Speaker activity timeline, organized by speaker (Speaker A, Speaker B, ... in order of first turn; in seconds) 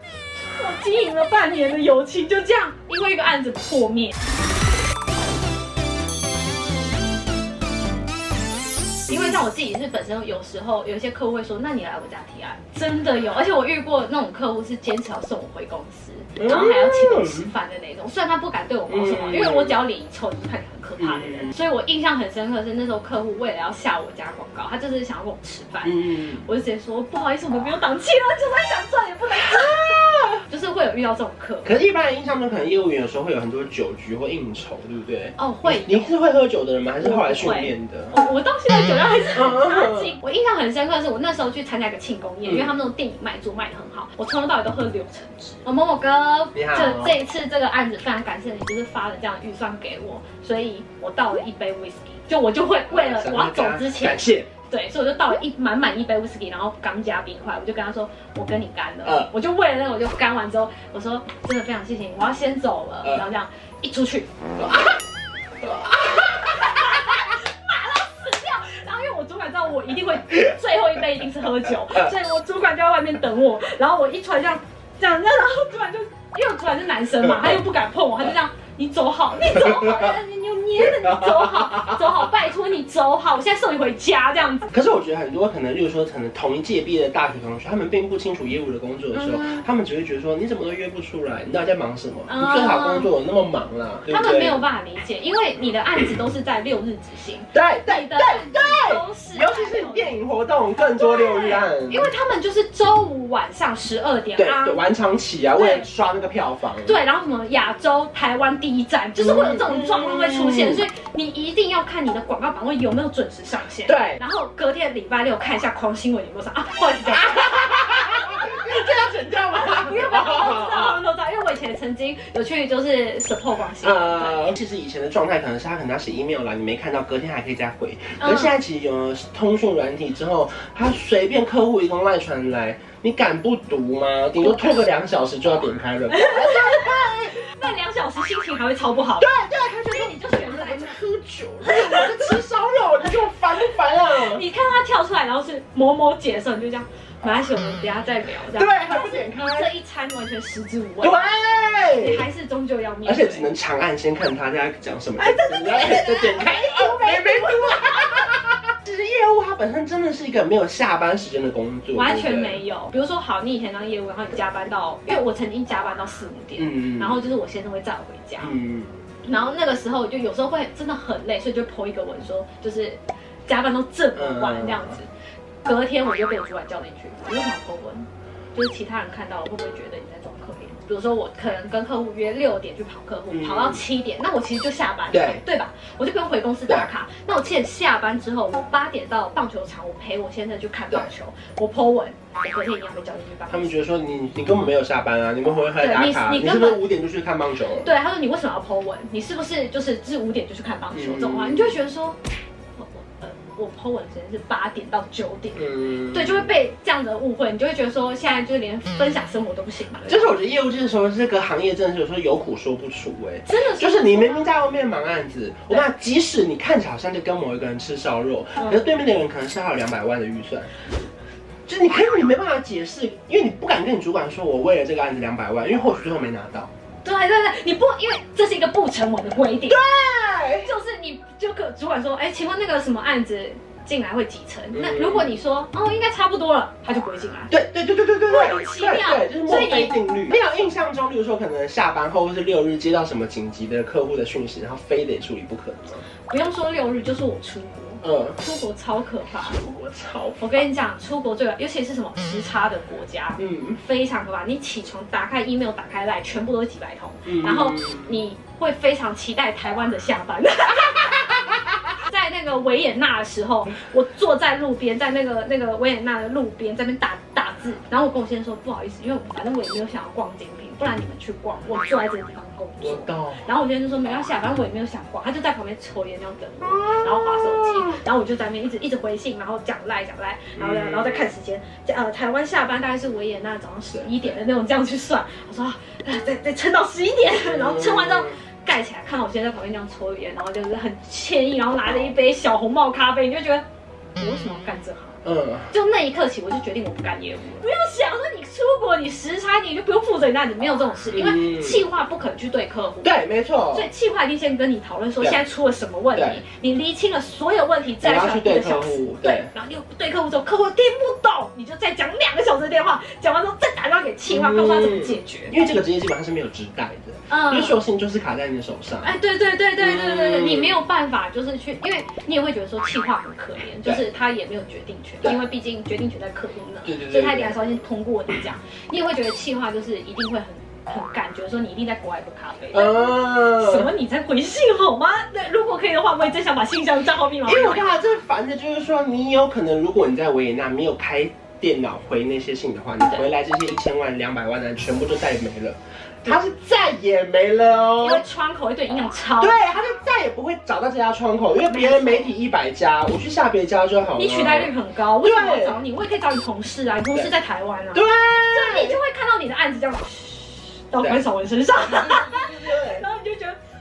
Speaker A: 0.6-4.2, 9.1-31.7, 35.4-36.1, 37.0-64.3, 65.7-84.7, 89.1-89.6, 92.3-93.1, 94.1-100.2, 101.0-104.8, 105.5-105.9, 106.8-124.5, 128.2-128.6, 134.4-134.8, 136.1-139.3, 139.9-141.0, 141.7-142.2, 144.1-151.3, 151.9-153.5, 155.2-158.3, 161.9-168.5, 169.2-175.1, 175.6-193.7, 195.8-196.8, 197.8-202.2, 202.8-210.3, 213.5-214.5, 218.6-218.9, 227.0-229.8, 230.6-237.5, 238.3-240.0, 246.3-249.6, 250.4-293.6, 294.2-303.1, 303.7-315.5, 317.3-317.8, 319.0-337.9, 348.0-349.7, 351.6-352.4, 354.1-363.6
Speaker B: 16.4-17.5, 18.9-19.8, 21.0-21.5, 25.8-26.4, 29.6-30.4, 31.6-38.1, 39.3-40.2, 42.5-42.7, 46.5-47.2, 52.9-54.5, 59.0-59.3, 65.9-66.2, 77.2-77.6, 79.6-80.1, 80.8-82.3, 84.7-94.6, 97.5-102.1, 104.4-107.0, 109.2-110.8, 113.9-114.2, 117.1-121.0, 123.8-137.3, 139.2-144.4, 148.5-149.7, 151.0-152.3, 153.1-162.6, 166.6-167.2, 168.4-169.0, 174.2-175.0, 183.3-183.8, 185.1-185.4, 193.5-197.9, 200.9-201.8, 205.6-206.5, 210.1-220.7, 221.7-226.7, 229.7-230.7, 234.7-235.3, 237.5-246.0, 248.0-248.4, 249.4-250.7, 253.4-253.8, 257.2-258.2, 272.8-273.5, 276.7-278.0, 280.6-281.3, 283.9-284.4, 287.4-288.4, 291.9-292.1, 295.2-295.7, 301.1-301.8, 303.0-303.9, 306.1-306.4, 308.0-309.5, 314.3-319.1, 319.8-320.8, 326.8-327.6, 332.7-333.9, 337.4-348.2, 349.4-355.8, 357.9-359.0, 362.0-363.1